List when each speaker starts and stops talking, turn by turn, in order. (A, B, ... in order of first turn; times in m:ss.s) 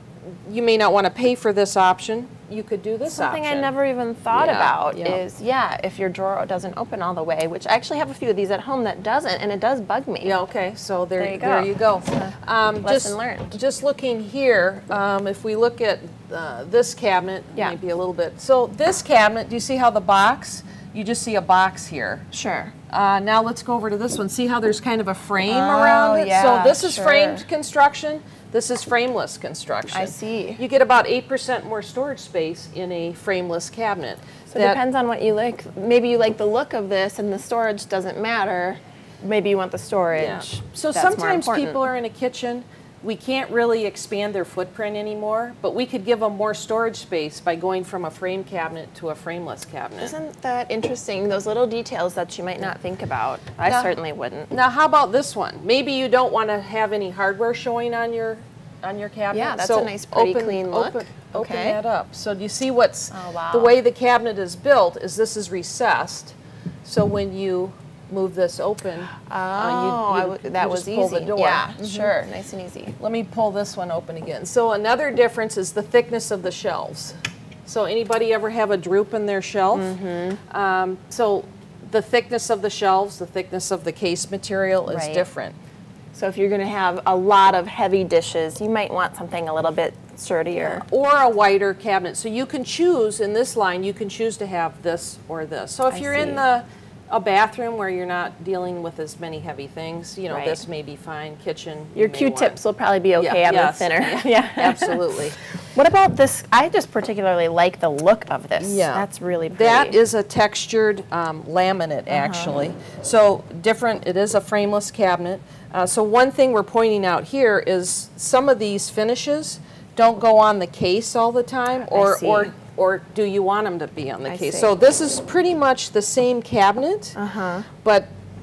0:00.5-0:03.7 A
0:03.1-0:10.4 B
0:04.3-0:05.2 A
0:10.2-0:22.3 A
0:11.2-0:13.6 B
0:22.3-0:22.7 B
0:22.9-0:34.8 A
0:25.5-0:27.4 B
0:29.9-0:30.6 B
0:34.5-0:41.8 B
0:40.2-0:50.2 A
0:50.0-0:54.5 B
0:53.6-0:53.9 A
0:54.5-1:12.1 A
0:59.3-1:01.8 B
1:03.1-1:03.8 B
1:09.3-1:13.0 B
1:13.0-1:17.2 A
1:17.7-1:19.9 A
1:19.7-1:20.4 B
1:20.5-1:25.6 A
1:24.9-1:25.3 B
1:26.1-1:30.8 B
1:30.5-1:42.6 A
1:35.9-1:36.4 B
1:40.3-1:40.6 B
1:42.0-1:50.0 B
1:43.2-1:45.4 A
1:48.6-2:07.2 A
1:52.1-1:52.5 B
2:01.8-2:02.5 B
2:04.3-2:04.7 B
2:07.2-2:07.7 B
2:07.8-2:08.1 A